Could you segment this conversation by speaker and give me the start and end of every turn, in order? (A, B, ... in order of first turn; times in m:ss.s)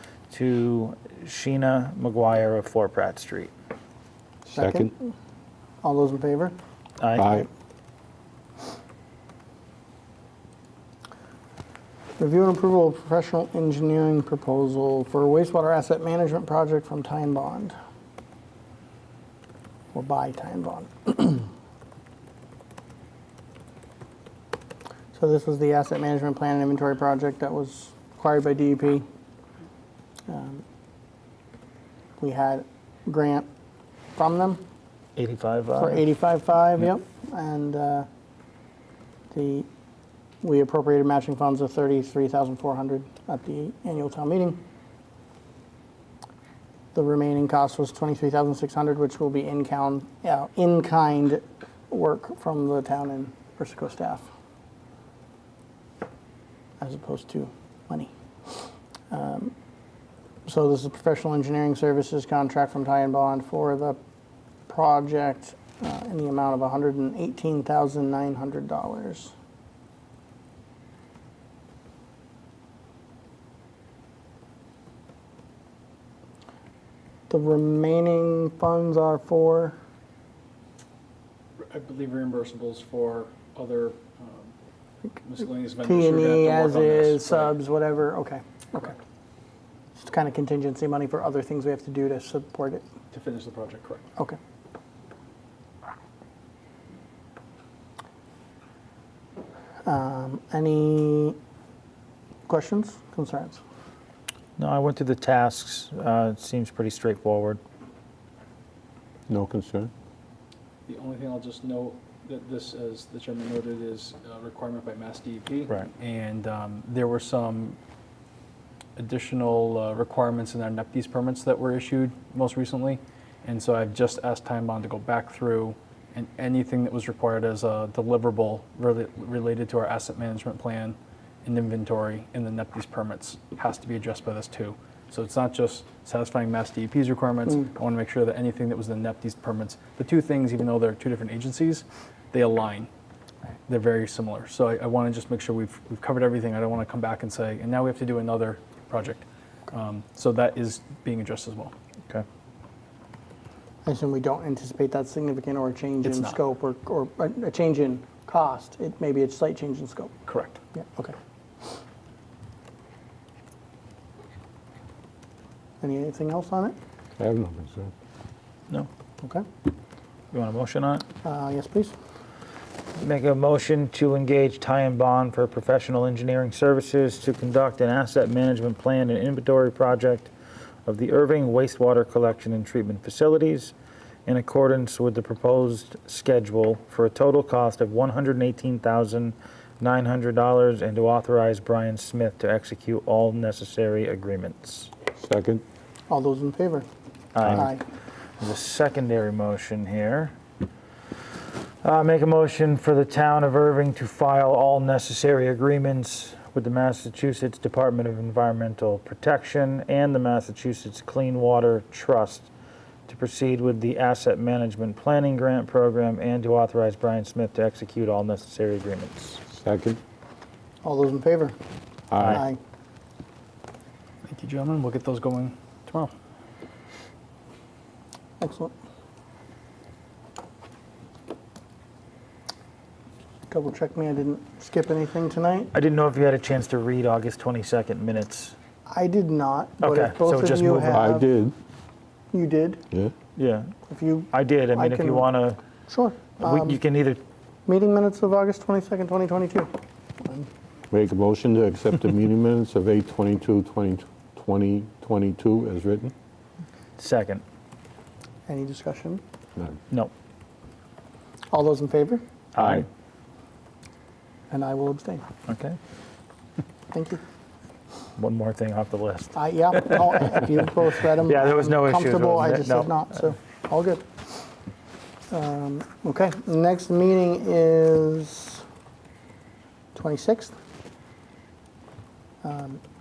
0:00.3-0:03.5 A
0:04.4-0:05.1 B
0:04.6-0:04.9 C
0:05.8-0:06.6 B
0:07.0-0:07.4 A
0:07.2-0:07.5 C
0:12.2-0:17.7 B
0:19.9-0:21.5 B
0:25.1-0:29.0 B
0:30.3-0:30.6 B
0:32.2-0:33.5 B
0:34.1-0:34.6 B
0:35.2-0:36.0 A
0:35.8-0:38.1 B
0:39.3-0:39.7 B
0:40.4-0:44.6 B
0:46.9-0:54.3 B
0:56.8-0:59.5 B
1:00.4-1:04.0 B
1:04.7-1:09.3 B
1:17.3-1:19.8 B
1:21.6-1:24.5 D
1:25.2-1:27.6 D
1:25.8-1:29.0 B
1:30.0-1:32.8 B
1:33.1-1:34.1 D
1:39.8-1:41.4 B
1:42.5-1:43.6 B
1:44.6-1:47.6 A
1:49.3-1:49.9 C
1:50.8-1:57.8 D
1:59.0-2:22.9 D
2:23.7-2:31.7 D
2:33.8-2:40.1 B
2:36.0-2:36.4 D
2:40.2-2:40.6 D
2:40.7-2:41.1 B
2:45.8-2:46.7 B
2:47.2-2:47.9 C
2:50.3-2:51.0 A
2:51.2-2:51.9 B
2:53.0-3:00.3 A
3:00.8-3:03.7 A
3:04.2-3:14.9 A
3:15.2-3:15.6 C
3:16.1-3:16.8 B
3:17.3-3:17.8 A
3:17.4-3:17.8 B
3:18.4-3:20.4 A
3:21.8-3:32.5 A
3:33.0-3:39.4 A
3:39.5-3:40.0 C
3:40.8-3:41.6 B
3:42.1-3:42.4 C
3:42.2-3:42.6 B
3:44.2-3:46.1 D
3:48.4-3:48.7 B
3:53.5-3:55.7 B
3:55.7-3:58.6 A
3:58.9-4:01.3 B
3:59.8-4:01.0 A
4:00.8-4:01.5 C
4:02.3-4:02.8 B
4:03.4-4:03.7 A
4:03.9-4:05.3 B
4:04.3-4:05.6 A
4:05.9-4:06.8 B
4:06.4-4:07.2 A
4:07.6-4:09.7 B
4:10.2-4:10.5 B
4:10.9-4:16.1 C
4:17.0-4:17.4 A
4:18.5-4:19.2 B
4:21.5-4:22.2 B
4:22.5-4:22.9 A
4:22.6-4:22.8 C
4:24.5-4:25.2 B
4:25.5-4:25.8 A
4:26.9-4:27.2 B
4:28.2-4:30.0 A
4:29.3-4:34.4 B
4:31.2-4:33.3 A
4:35.3-4:38.6 B
4:39.9-4:40.5 B
4:42.4-4:42.8 B